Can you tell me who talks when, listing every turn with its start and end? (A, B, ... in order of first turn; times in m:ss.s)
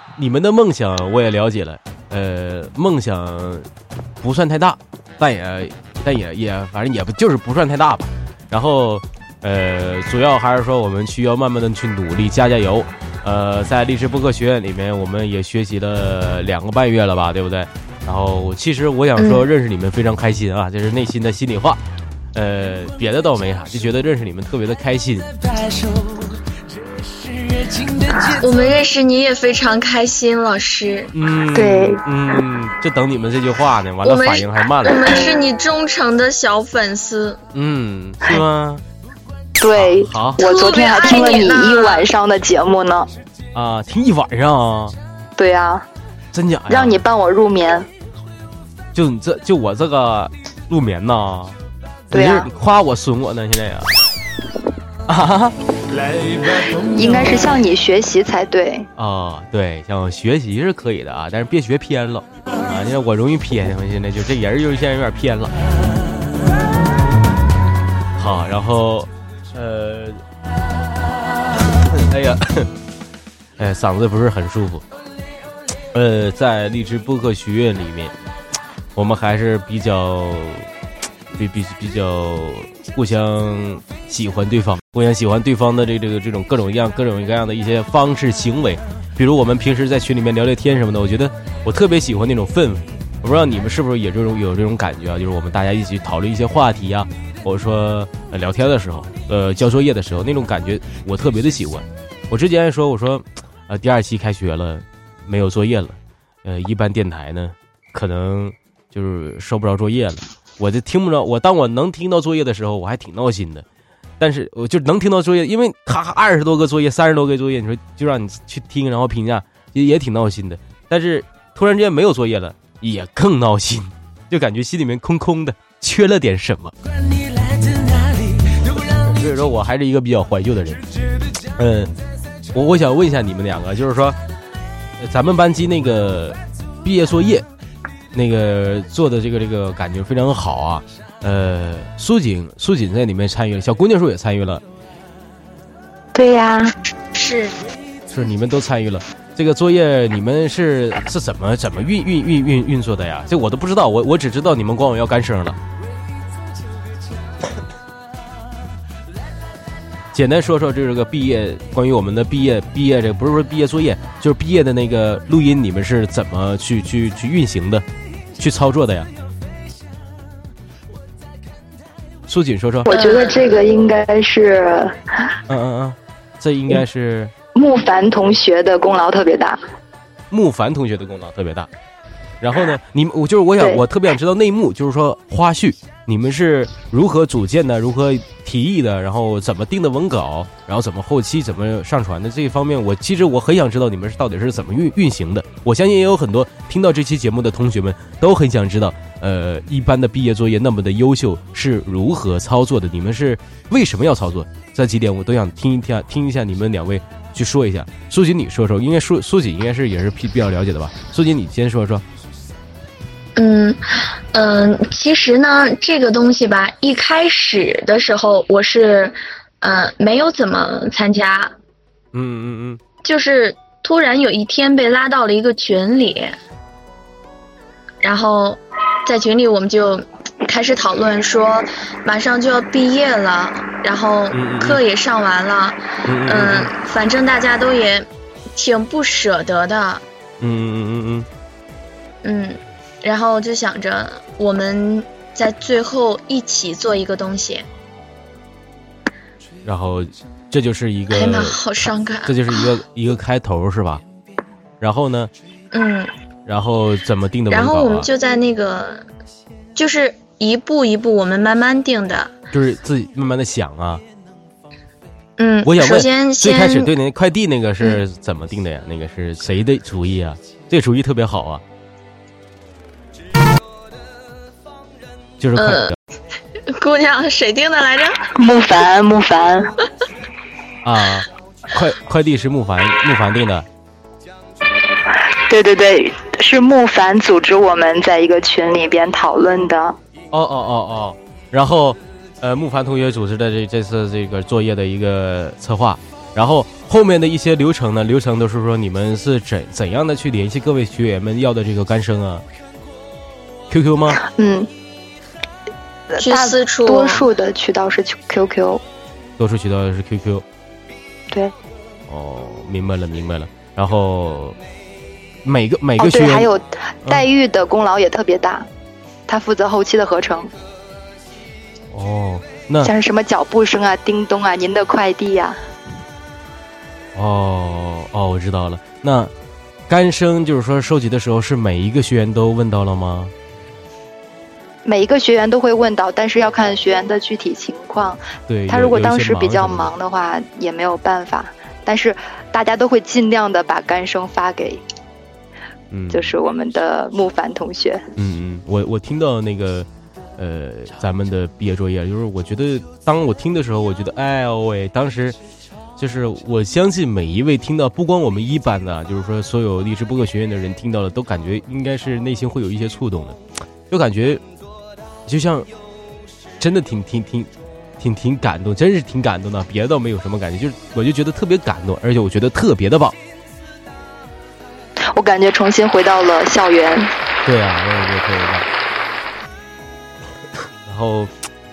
0:00.2-0:03.7 A
0:04.2-0:21.8 A
0:19.2-0:19.4 B
0:22.3-0:25.4 A
0:28.3-0:31.1 B
0:31.1-0:35.1 A
0:31.5-0:32.0 C
0:34.0-0:37.4 B
0:37.5-0:38.8 A
0:39.6-0:43.1 C
0:39.7-0:40.4 A
0:40.4-0:42.1 B
0:43.5-0:45.0 A
0:45.4-0:45.8 C
0:46.3-0:47.0 A
0:46.7-0:47.9 C
0:48.9-0:51.6 A
0:52.1-0:52.5 C
0:52.1-0:53.9 A
0:55.1-0:55.6 A
0:56.8-0:58.9 C
0:59.0-1:05.5 A
1:08.2-1:10.2 A
1:11.7-1:12.7 A
1:13.6-1:14.8 A
1:15.9-1:18.1 A
1:19.0-1:20.7 A
1:21.3-1:53.6 A
1:54.2-2:06.7 A
2:08.5-2:10.8 A
2:11.6-2:11.9 A
2:12.5-2:14.2 A
2:15.0-2:17.5 A
2:18.1-2:24.6 A
2:26.1-2:26.7 C
2:27.1-2:27.5 B
2:28.1-2:35.6 A
2:40.1-2:47.8 A
2:48.4-2:49.1 A
2:52.3-2:52.9 A
2:52.8-2:55.3 C
2:52.9-2:53.4 B
2:55.5-2:57.3 A
2:57.5-2:59.6 C
3:00.3-3:01.7 A
3:02.4-3:32.0 A
3:03.6-3:03.8 C
3:33.4-3:41.5 B
3:42.1-3:42.8 A
3:43.0-3:46.4 B
3:48.0-4:00.0 B
3:54.3-3:54.8 A
3:56.0-3:56.7 A
4:00.4-4:01.3 A
4:02.2-4:07.7 B
4:09.6-4:11.6 A
4:11.1-4:12.7 B
4:12.2-4:14.0 A
4:14.8-4:15.3 A
4:15.7-4:16.1 B
4:16.4-4:18.1 A
4:17.5-4:19.0 B
4:19.8-4:22.3 B
4:22.5-4:24.0 A
4:25.4-4:26.9 B
4:25.6-4:31.6 A
4:35.4-4:36.0 A
4:35.6-4:36.0 B
4:36.7-4:38.2 B
4:38.3-4:39.8 C
4:40.8-4:43.6 A
4:45.3-4:50.0 C
4:50.3-5:02.4 A
5:03.7-5:04.2 A
5:04.2-5:04.7 C
5:06.1-5:08.8 C
5:06.2-5:07.2 B
5:09.4-5:10.4 A
5:12.1-5:14.6 A
5:15.4-5:16.5 A
5:16.0-5:18.7 C
5:19.3-5:20.5 C
5:21.9-5:22.9 A
5:22.8-5:25.6 C
5:27.1-5:29.3 A
5:29.9-5:33.3 A
5:34.8-5:44.8 C
5:38.5-5:39.9 A
5:45.9-5:46.3 A
5:46.1-5:48.0 C
5:48.2-5:55.4 A
5:56.0-6:04.4 A
6:05.3-6:05.7 A
6:06.6-6:13.2 A
6:15.1-6:17.1 C
6:17.4-6:18.6 A
6:20.8-6:21.3 A